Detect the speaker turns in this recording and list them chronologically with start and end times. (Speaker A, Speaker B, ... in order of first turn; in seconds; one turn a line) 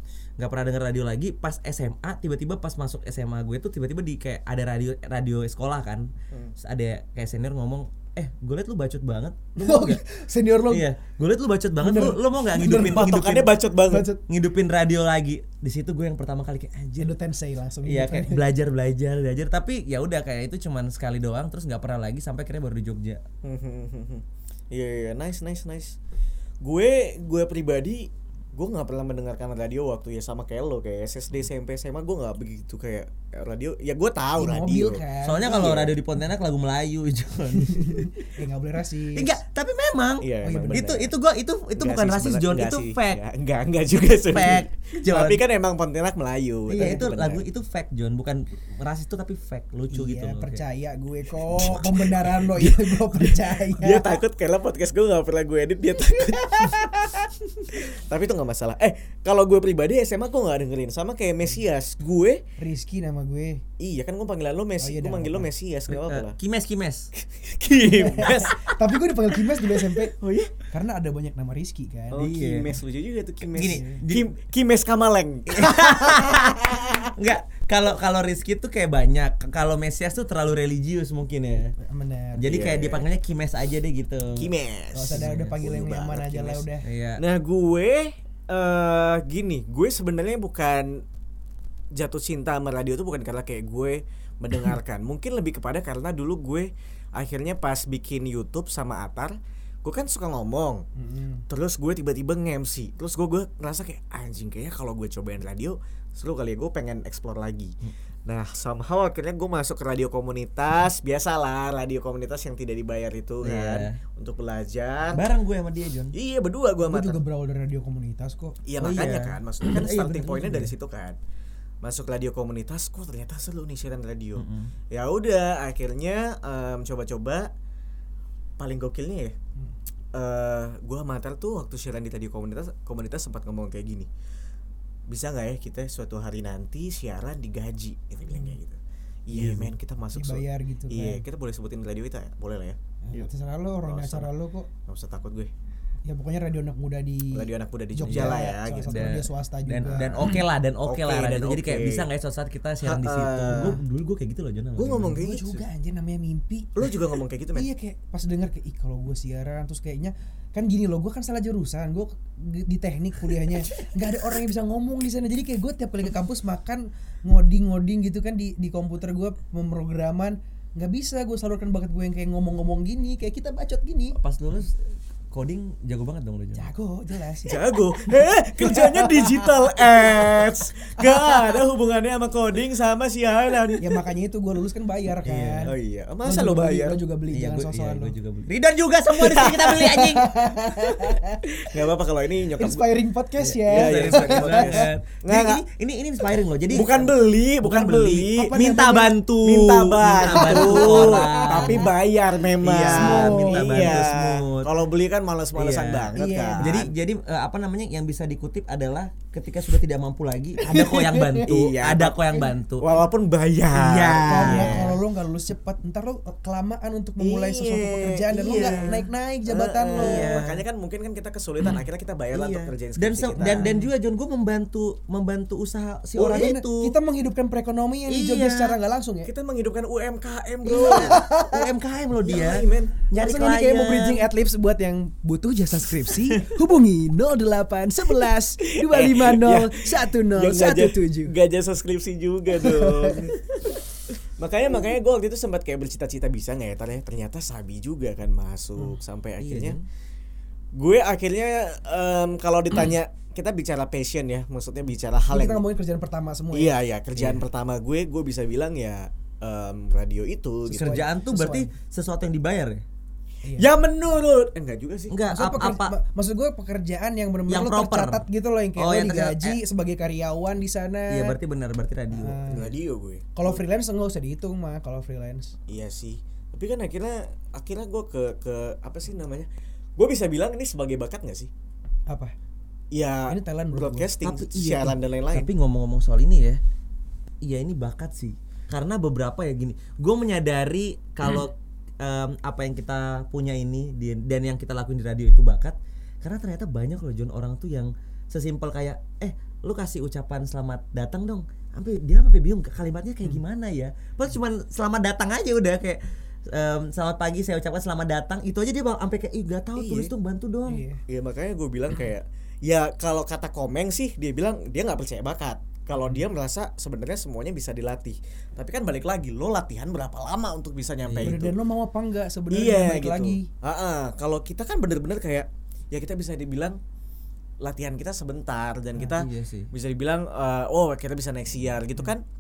Speaker A: 0.4-10.0
Speaker B: 9.6-10.9
Speaker A: 10.7-13.6
Speaker B: 11.8-13.2
Speaker C: 12.7-14.1
Speaker B: 13.9-14.2
Speaker A: 14.3-17.1
Speaker B: 17.0-18.5
Speaker A: 17.8-23.2
Speaker C: 23.4-26.0
Speaker C: 26.6-35.9
Speaker B: 34.4-35.8
Speaker A: 35.2-38.2
Speaker B: 37.6-39.4
Speaker A: 39.1-43.2
Speaker C: 40.2-41.1
Speaker B: 40.4-41.0
Speaker C: 41.8-47.5
Speaker A: 44.1-45.4
Speaker A: 46.7-50.6
Speaker B: 46.8-47.1
Speaker B: 49.9-54.2
Speaker A: 51.5-52.7
Speaker C: 53.8-62.4
Speaker B: 62.6-63.6
Speaker C: 63.8-66.4
Speaker B: 64.8-65.5
Speaker A: 65.9-67.1
Speaker C: 67.2-68.7
Speaker B: 67.8-70.1
Speaker A: 68.1-68.6
Speaker C: 70.2-70.5
Speaker B: 70.7-72.3
Speaker C: 72.1-77.1
Speaker A: 72.2-72.8
Speaker A: 73.4-74.3
Speaker B: 73.6-74.0
Speaker A: 75.5-81.8
Speaker B: 81.8-82.6
Speaker A: 82.4-84.5
Speaker C: 82.5-83.1
Speaker C: 84.4-86.7
Speaker B: 84.9-86.9
Speaker A: 85.1-85.6
Speaker A: 86.8-87.2
Speaker C: 87.2-91.0
Speaker C: 91.9-100.9
Speaker B: 101.0-101.5
Speaker C: 101.5-115.2
Speaker A: 113.4-114.0
Speaker A: 115.1-116.2
Speaker C: 116.1-117.2
Speaker B: 116.8-118.6
Speaker C: 118.7-121.2
Speaker A: 118.8-120.7
Speaker C: 121.8-127.5
Speaker A: 124.4-124.7
Speaker C: 128.6-129.3
Speaker C: 130.1-134.1
Speaker C: 135.1-143.3
Speaker B: 138.3-138.6
Speaker A: 139.3-139.7
Speaker B: 140.1-141.2
Speaker B: 143.1-144.7
Speaker C: 143.9-144.3
Speaker C: 144.9-145.5
Speaker B: 146.1-150.4
Speaker C: 147.3-149.0
Speaker A: 148.0-155.2
Speaker C: 150.9-152.1
Speaker C: 152.8-153.8
Speaker B: 153.5-153.8
Speaker C: 154.8-155.6
Speaker B: 155.2-156.9
Speaker C: 156.8-157.7
Speaker B: 157.6-174.2
Speaker A: 174.2-176.7
Speaker B: 176.6-180.3
Speaker C: 177.5-183.9
Speaker B: 181.0-181.5
Speaker B: 183.8-185.7
Speaker A: 185.2-185.7
Speaker C: 185.7-187.0
Speaker B: 186.2-188.2
Speaker A: 187.3-190.4
Speaker C: 189.2-190.0
Speaker B: 189.8-191.4
Speaker C: 191.5-192.9
Speaker B: 192.6-194.9
Speaker A: 193.4-201.9
Speaker C: 193.7-195.6
Speaker C: 196.7-198.6
Speaker B: 198.0-199.2
Speaker C: 199.4-206.9
Speaker B: 200.3-201.9
Speaker A: 202.6-204.7
Speaker B: 202.8-204.0
Speaker A: 205.6-212.9
Speaker B: 206.2-206.8
Speaker B: 210.6-211.5
Speaker C: 211.4-215.0
Speaker A: 213.7-215.0
Speaker B: 214.2-220.4
Speaker C: 217.2-223.7
Speaker A: 220.0-220.6
Speaker A: 221.6-227.0
Speaker B: 223.5-223.9
Speaker B: 226.2-229.3
Speaker A: 228.1-228.8
Speaker C: 229.3-231.3
Speaker B: 230.7-231.7
Speaker A: 230.7-234.3
Speaker C: 232.2-233.0
Speaker B: 233.2-241.3
Speaker C: 238.7-243.8
Speaker B: 242.6-243.3
Speaker C: 244.4-249.8
Speaker A: 249.4-249.8
Speaker C: 250.8-255.6
Speaker B: 255.3-256.7
Speaker C: 256.5-261.0
Speaker A: 257.2-257.4
Speaker A: 260.7-262.8
Speaker B: 260.7-261.7
Speaker B: 263.4-263.7
Speaker C: 263.6-265.2
Speaker A: 265.1-266.0
Speaker B: 265.3-271.4
Speaker A: 267.5-269.6
Speaker A: 271.1-272.7
Speaker B: 272.1-272.7
Speaker C: 272.5-273.6
Speaker B: 273.4-275.6
Speaker C: 275.7-281.5
Speaker B: 282.1-282.3
Speaker C: 282.9-285.5
Speaker B: 283.3-284.1
Speaker A: 284.2-286.6
Speaker A: 287.4-310.9
Speaker C: 309.8-310.1
Speaker B: 310.7-311.0
Speaker C: 311.1-321.6
Speaker A: 321.1-321.4
Speaker B: 321.2-323.5
Speaker C: 322.5-326.8
Speaker C: 327.6-332.2
Speaker A: 329.1-329.7